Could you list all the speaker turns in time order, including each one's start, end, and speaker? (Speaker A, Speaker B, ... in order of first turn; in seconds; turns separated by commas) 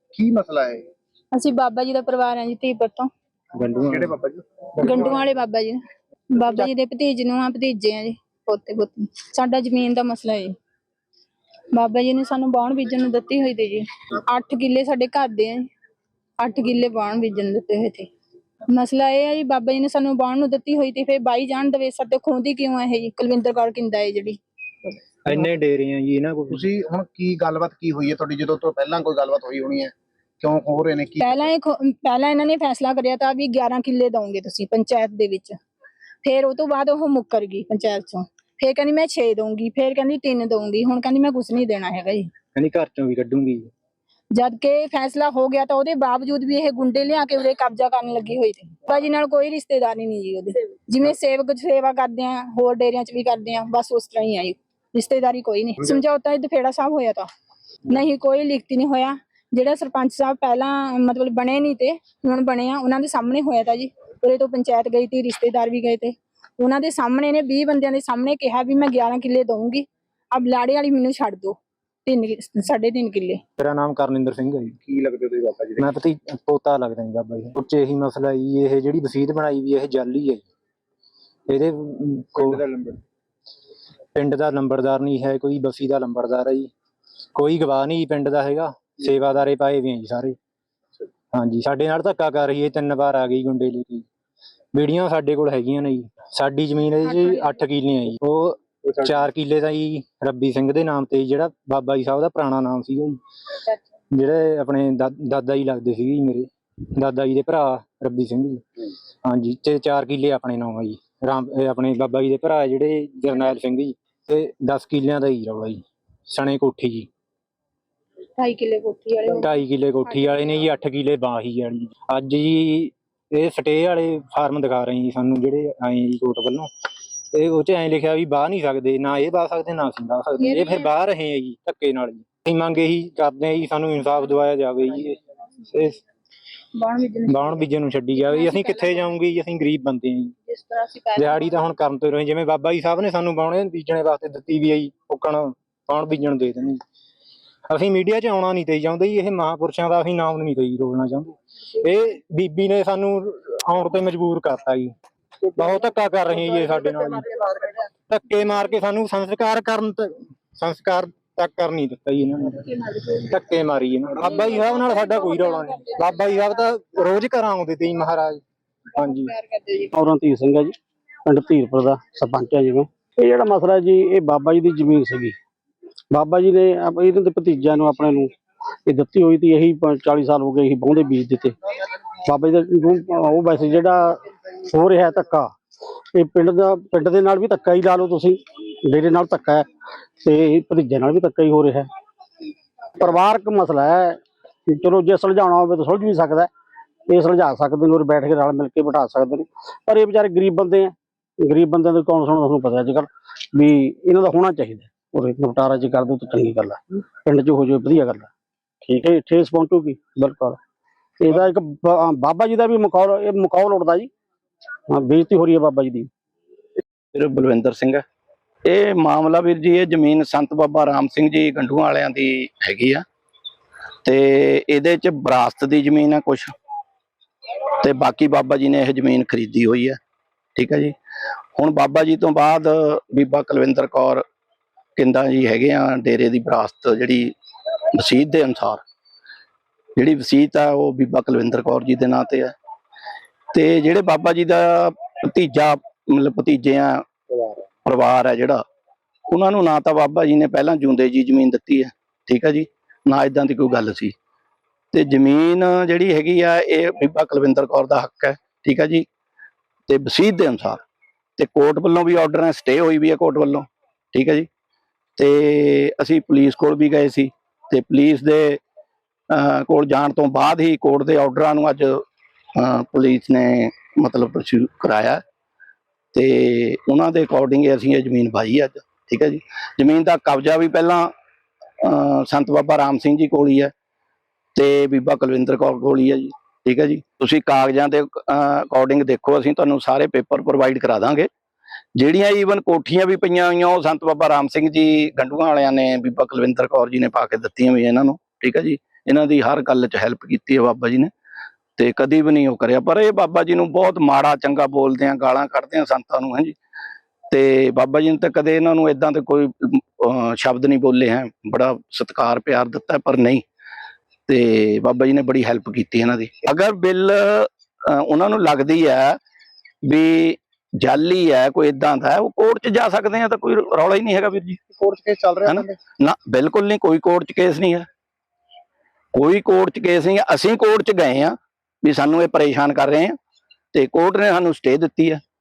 Speaker A: 0.1-0.9, Speaker B: 1.3-3.1, Speaker C: 3.5-4.2, Speaker A: 3.9-5.1, Speaker B: 4.8-5.8, Speaker B: 6.3-10.5, Speaker B: 11.7-15.6, Speaker B: 16.4-18.1, Speaker B: 18.7-24.4, Speaker C: 25.2-26.6, Speaker A: 26.5-31.5, Speaker B: 31.2-35.5, Speaker B: 36.2-42.3, Speaker C: 42.5-43.7, Speaker B: 44.3-57.3, Speaker B: 57.9-73.4, Speaker C: 73.6-74.8, Speaker A: 74.8-75.8, Speaker C: 75.8-80.4, Speaker C: 81.5-82.6, Speaker A: 82.4-83.0, Speaker C: 84.1-86.7, Speaker C: 87.3-90.3, Speaker C: 91.3-94.0, Speaker C: 94.7-103.2, Speaker B: 97.0-97.5, Speaker C: 104.1-108.6, Speaker C: 109.2-117.1, Speaker B: 118.4-120.7, Speaker C: 119.3-126.7, Speaker C: 127.3-135.2, Speaker B: 130.4-130.9, Speaker C: 135.7-136.0, Speaker B: 136.7-137.6, Speaker C: 137.3-140.3, Speaker B: 138.2-139.1, Speaker B: 140.5-141.6, Speaker C: 141.2-146.8, Speaker C: 147.7-154.9, Speaker C: 155.5-168.4, Speaker B: 164.2-166.0, Speaker C: 169.0-169.3, Speaker B: 169.3-169.9, Speaker D: 169.9-175.3, Speaker D: 176.1-178.3, Speaker D: 178.8-181.6, Speaker D: 182.2-185.5, Speaker D: 186.1-189.7, Speaker D: 190.2-191.9, Speaker D: 193.0-196.5, Speaker D: 197.1-208.3, Speaker D: 208.8-210.6, Speaker D: 211.2-214.1, Speaker D: 214.9-216.1, Speaker E: 217.1-218.0, Speaker E: 218.6-223.0, Speaker E: 224.0-226.5, Speaker E: 227.8-230.0, Speaker E: 230.6-230.9, Speaker E: 231.6-234.2, Speaker E: 234.9-237.3, Speaker E: 237.9-238.8, Speaker E: 240.0-242.5, Speaker E: 243.5-247.0, Speaker E: 247.8-248.6, Speaker E: 249.3-254.1, Speaker E: 254.9-259.1, Speaker E: 259.9-260.8, Speaker E: 261.4-264.5, Speaker E: 265.2-268.6, Speaker E: 269.3-272.0, Speaker E: 272.6-275.2, Speaker E: 276.1-281.1, Speaker E: 281.8-283.7, Speaker E: 284.5-291.3, Speaker E: 291.9-301.1, Speaker E: 301.8-306.6, Speaker E: 307.3-313.4, Speaker E: 314.3-319.2, Speaker E: 319.8-324.6, Speaker A: 324.7-325.8, Speaker E: 325.4-327.9, Speaker E: 329.1-333.1, Speaker E: 333.7-335.2